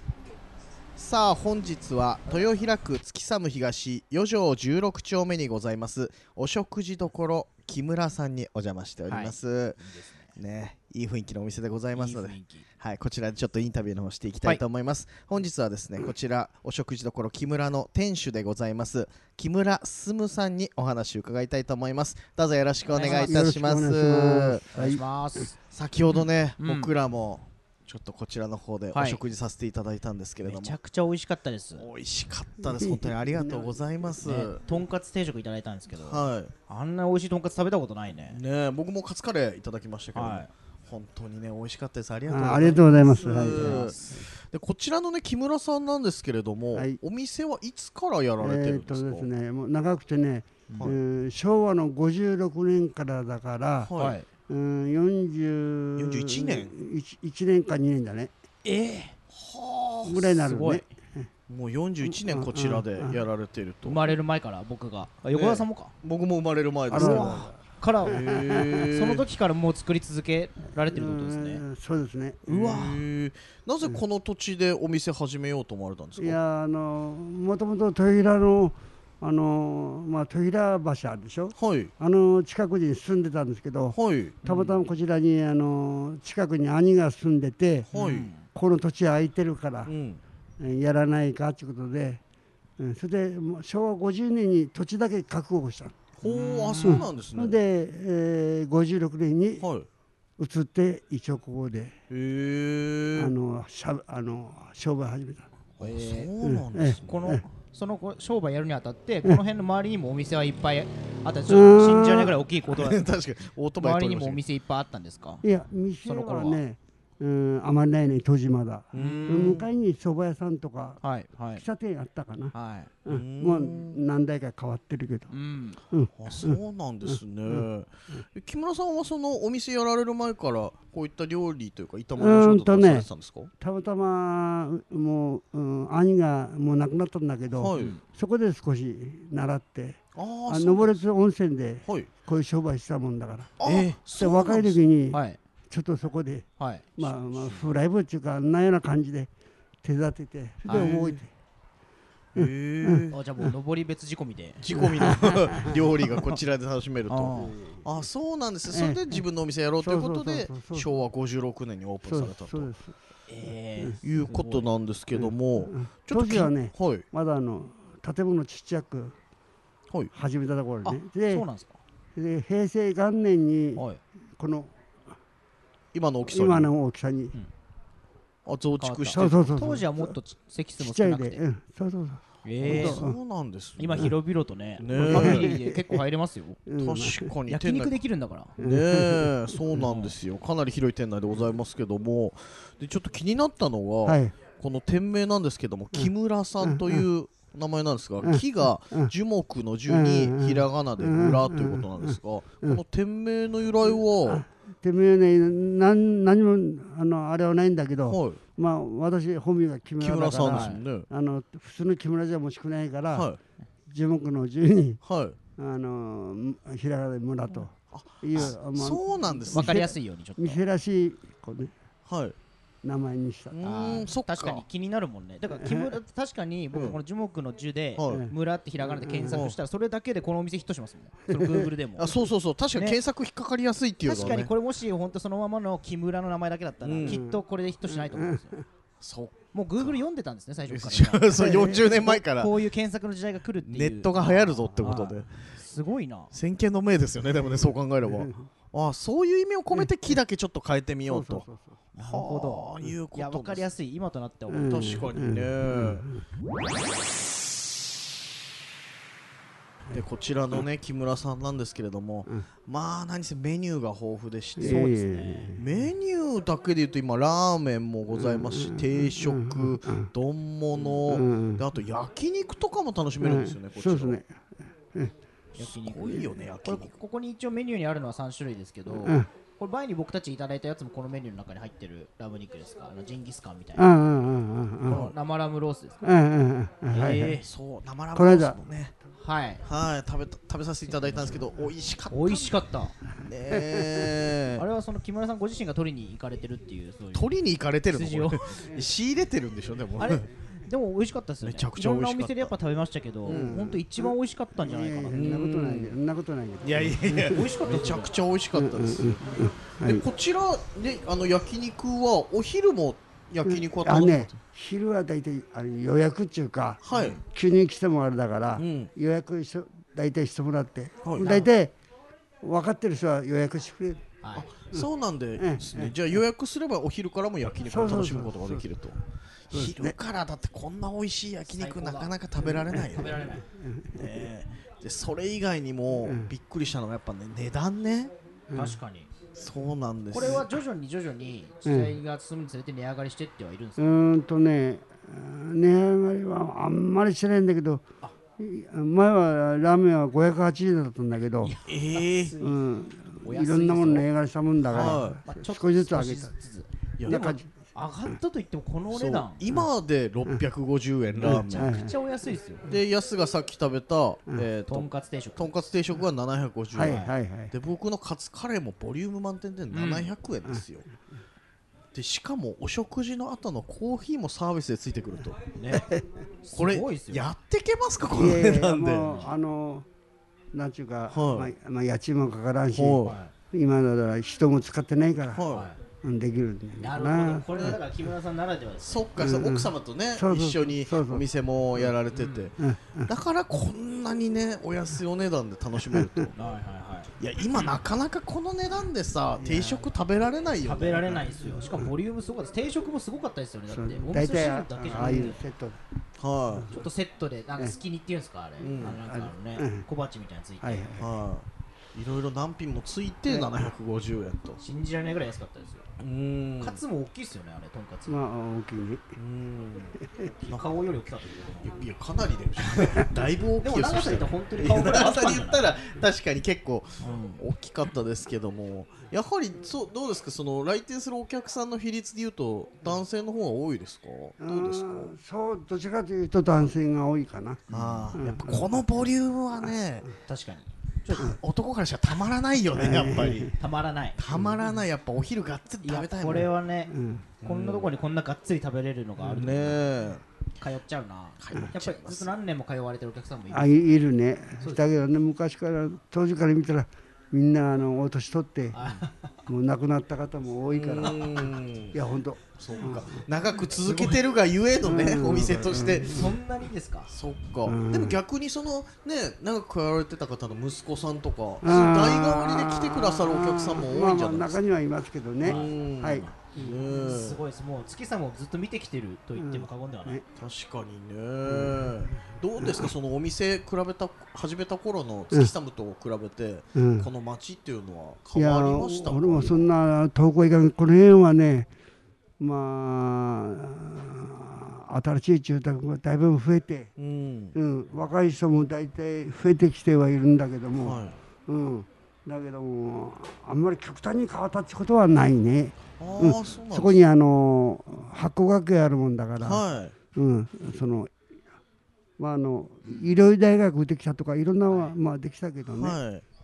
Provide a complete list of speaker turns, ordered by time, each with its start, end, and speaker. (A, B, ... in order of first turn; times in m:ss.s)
0:01.0-0:09.8 A
0:09.1-0:10.3 B
0:10.3-0:24.7 A
0:11.9-0:12.6 B
0:22.9-0:23.3 B
0:23.0-0:25.0 C
0:24.7-0:25.5 B
0:25.6-0:30.8 A
0:26.6-0:26.9 B
0:28.9-0:29.2 B
0:30.4-0:31.9 B
0:31.8-0:34.6 A
0:32.6-0:33.7 C
0:34.2-0:38.4 B
0:35.9-0:36.5 A
0:38.3-0:49.3 A
0:40.1-0:40.5 B
0:42.3-0:43.8 C
0:43.3-0:44.3 B
0:46.7-0:47.0 C
0:48.4-0:53.9 C
0:50.7-0:50.9 B
0:53.8-0:54.2 A
0:54.0-0:54.2 B
0:54.5-0:58.3 C
0:56.0-0:56.7 A
0:58.6-0:59.1 B
0:59.3-1:00.5 A
1:00.0-1:01.3 C
1:00.4-1:00.8 B
1:01.5-1:04.1 A
1:02.0-1:03.2 C
1:03.8-1:05.9 B
1:05.3-1:07.4 A
1:06.9-1:07.5 C
1:06.9-1:11.6 B
1:08.0-1:09.2 A
1:08.2-1:08.8 C
1:10.9-1:12.4 C
1:12.4-1:13.0 B
1:12.5-1:16.4 A
1:16.2-1:27.9 C
1:21.6-1:21.9 A
1:23.9-1:24.4 A
1:24.4-1:24.8 B
1:27.9-1:28.3 A
1:27.9-1:28.4 B
1:28.5-1:29.9 C
1:29.9-1:30.2 A
1:30.6-1:32.2 C
1:32.8-1:36.0 C
1:36.2-1:37.6 A
1:36.2-1:37.1 B
1:36.8-1:39.6 C
1:39.6-1:39.9 A
1:40.4-1:41.9 C
1:42.1-1:43.3 A
1:43.2-1:45.5 C
1:45.8-1:46.3 B
1:45.8-1:47.1 A
1:46.4-1:47.4 C
1:47.0-1:53.0 B
1:51.5-1:52.4 C
1:52.7-1:54.4 A
1:53.8-1:55.4 B
1:55.4-2:01.0 C
1:56.0-1:56.6 B
1:58.9-1:59.5 A
1:58.9-1:59.6 B
2:01.0-2:01.6 B
2:01.6-2:02.5 C
2:02.5-2:02.9 B
2:03.0-2:05.3 C
2:03.1-2:04.0 A
2:05.3-2:05.8 B
2:05.9-2:06.6 C
2:06.2-2:13.5 A
2:12.2-2:13.1 C
2:13.6-2:29.3 C
2:17.5-2:17.9 A
2:17.8-2:18.0 B
2:20.1-2:20.9 A
2:23.6-2:24.8 A
2:25.1-2:25.4 B
2:26.6-2:27.7 B
2:29.8-2:31.3 C
2:30.6-2:31.2 B
2:30.7-2:31.2 A
2:32.3-2:33.2 A
2:32.3-2:33.1 C
2:33.1-2:34.6 B
2:34.6-2:42.7 A
2:34.8-2:36.3 C
2:37.1-2:37.6 B
2:37.4-2:37.8 C
2:38.7-2:39.0 C
2:39.8-2:40.9 C
2:42.0-2:42.9 C
2:43.3-2:44.6 B
2:44.0-2:47.0 A
2:45.1-2:49.2 C
2:50.1-2:51.4 C
2:50.8-2:51.8 B
2:52.1-2:53.8 C
2:54.4-2:54.7 C
2:55.9-2:56.7 A
2:56.3-2:57.4 C
2:58.4-2:59.4 A
2:58.8-3:01.4 B
2:59.1-3:00.2 C
3:00.8-3:03.2 C
3:02.4-3:03.0 B
3:02.6-3:04.1 A
3:03.8-3:06.6 B
3:04.8-3:05.6 A
3:04.9-3:06.0 C
3:06.7-3:07.3 C
3:06.8-3:08.0 A
3:07.5-3:08.5 B
3:08.6-3:24.4 A
3:08.6-3:09.3 C
3:09.8-3:10.1 B
3:14.0-3:14.3 C
3:16.6-3:17.0 C
3:18.2-3:19.1 C
3:19.9-3:22.8 C
3:24.2-3:33.3 C
3:28.1-3:28.4 A
3:30.0-3:31.1 A
3:30.5-3:30.8 B
3:33.1-3:33.4 A
3:33.9-3:35.0 C
3:35.0-3:35.4 A
3:35.6-3:41.7 C
3:37.9-3:39.9 A
3:39.5-3:40.6 B
3:42.1-3:42.4 A
3:42.8-3:43.6 C
3:43.5-3:44.6 A
3:43.6-3:52.2 B
3:45.5-3:45.9 C
3:48.0-3:48.3 A
3:48.8-3:49.4 C
3:49.3-3:49.6 A
3:51.3-3:51.6 C
3:52.0-3:54.5 A
3:52.7-3:53.0 B
3:54.0-3:58.6 B
3:56.8-3:57.2 A
3:57.1-3:58.6 C
3:59.0-4:00.0 A
3:59.5-4:06.3 B
4:00.7-4:02.5 A
4:01.4-4:02.0 C
4:03.6-4:05.5 A
4:06.3-4:11.4 A
4:08.1-4:08.4 C
4:11.0-4:11.8 C
4:11.9-4:14.9 B
4:12.0-4:13.7 A
4:14.5-4:16.2 C
4:14.6-4:16.1 A
4:19.9-4:24.9 A
4:24.6-4:25.6 C
4:24.6-4:25.6 B
4:25.5-4:34.2 A
4:28.1-4:30.1 C
4:31.0-4:31.6 C
4:33.2-4:34.4 C
4:35.5-4:43.9 B
4:35.6-4:36.9 A
4:38.9-4:39.3 C
4:43.8-4:45.1 C
4:44.8-4:46.0 B
4:44.9-4:45.1 A
4:46.0-4:47.4 C
4:46.9-4:47.4 B
4:47.1-4:48.9 A
4:48.1-4:48.6 C
4:49.2-4:49.6 B
4:49.6-4:52.6 A
4:51.0-4:51.4 B
4:52.1-4:52.9 B
4:53.2-4:54.6 A
4:53.5-4:54.1 C
4:54.6-4:57.3 B
4:57.1-5:00.3 A
4:57.9-4:58.6 B
5:00.0-5:05.4 B
5:01.4-5:02.5 A
5:03.2-5:03.7 A
5:03.3-5:07.5 C
5:05.1-5:06.0 A
5:06.6-5:14.4 A
5:07.2-5:08.1 B
5:08.5-5:10.1 C
5:13.4-5:21.7 C
5:16.8-5:17.2 A
5:16.9-5:17.2 B
5:18.6-5:18.9 A
5:21.0-5:21.4 A
5:22.4-5:24.1 C
5:24.2-5:24.5 B
5:24.4-5:29.0 A
5:24.7-5:26.0 C
5:27.6-5:28.7 C
5:29.5-5:33.4 A
5:29.5-5:30.0 C
5:31.5-5:32.1 B
5:32.6-5:34.3 C
5:32.7-5:33.4 B
5:33.9-5:38.1 A
5:36.0-5:36.3 C
5:38.5-5:38.8 C
5:38.5-5:39.1 B
5:39.3-5:40.5 A
5:40.1-5:43.8 B
5:41.6-5:42.0 C
5:43.8-5:47.8 C
5:48.4-5:51.5 C
5:51.4-5:52.5 B
5:51.7-5:52.4 A
5:52.4-5:56.3 C
5:53.2-5:54.0 B
5:54.7-5:59.4 B
5:54.7-5:55.2 A
5:57.0-5:57.2 A
5:57.0-5:57.5 C
5:58.9-6:01.8 A
6:01.2-6:01.9 C
6:01.2-6:02.7 B
6:02.6-6:10.9 A
6:04.7-6:05.5 B
6:06.7-6:07.5 C
6:06.8-6:07.1 B
6:09.7-6:10.1 B
6:11.9-6:15.4 A
6:15.5-6:15.9 B
6:15.7-6:16.0 C
6:16.4-6:17.2 B
6:16.5-6:19.2 A
6:18.1-6:19.9 C
6:20.5-6:25.4 C
6:21.1-6:21.5 A
6:22.7-6:23.2 A
6:23.0-6:23.3 B
6:25.3-6:25.7 A
6:25.5-6:25.8 B
6:26.0-6:27.7 C
6:26.8-6:29.1 B
6:28.8-6:36.4 A
6:29.2-6:31.2 C
6:32.1-6:32.5 B
6:32.6-6:33.1 C
6:35.9-6:36.3 C
6:36.3-6:37.1 B
6:37.2-6:41.3 A
6:39.4-6:39.8 C
6:40.6-6:45.4 B
6:43.7-6:45.8 C
6:46.2-6:46.7 A
6:46.7-6:50.9 B
6:48.6-6:49.0 A
6:48.8-6:49.8 C
6:50.6-6:51.1 C
6:51.0-6:54.6 A
6:53.3-6:53.7 C
6:54.6-6:55.9 B
6:56.0-6:56.8 A
6:56.6-6:58.2 B
6:58.1-6:59.1 C
6:59.2-7:00.6 A
7:00.0-7:00.3 C
7:00.4-7:01.7 B
7:01.6-7:15.1 A
7:03.6-7:05.7 B
7:07.0-7:07.4 B
7:14.4-7:18.7 C
7:17.7-7:18.1 B
7:17.7-7:20.1 A
7:20.2-7:21.4 B
7:21.1-7:23.6 A
7:22.8-7:23.6 C
7:23.6-7:24.2 B
7:24.2-7:26.5 A
7:24.3-7:24.6 C
7:25.8-7:26.9 B
7:26.9-7:27.3 C
7:27.4-7:27.9 A
7:27.4-7:29.8 B
7:29.2-7:30.2 A
7:30.6-7:34.0 B
7:31.4-7:32.3 A
7:33.5-7:38.9 C
7:34.6-7:34.9 B
7:38.7-7:39.3 B
7:39.4-7:43.2 C
7:40.7-7:42.0 A
7:42.6-7:46.3 A
7:44.8-7:46.3 C
7:46.0-7:47.1 B
7:47.1-7:54.6 A
7:47.6-7:48.2 C
7:51.6-7:56.9 C
7:55.4-7:57.4 A
7:55.4-7:55.7 B
7:56.9-8:00.2 B
7:59.4-8:00.2 C
8:00.4-8:09.7 A
8:01.5-8:02.9 C
8:06.8-8:07.1 C
8:08.3-8:11.7 C
8:12.4-8:16.9 C
8:17.0-8:17.6 A
8:17.5-8:29.6 C
8:20.8-8:21.2 A
8:26.0-8:27.0 A
8:29.4-8:29.9 A
8:30.1-8:31.1 C
8:32.2-8:36.0 C
8:35.7-8:36.2 A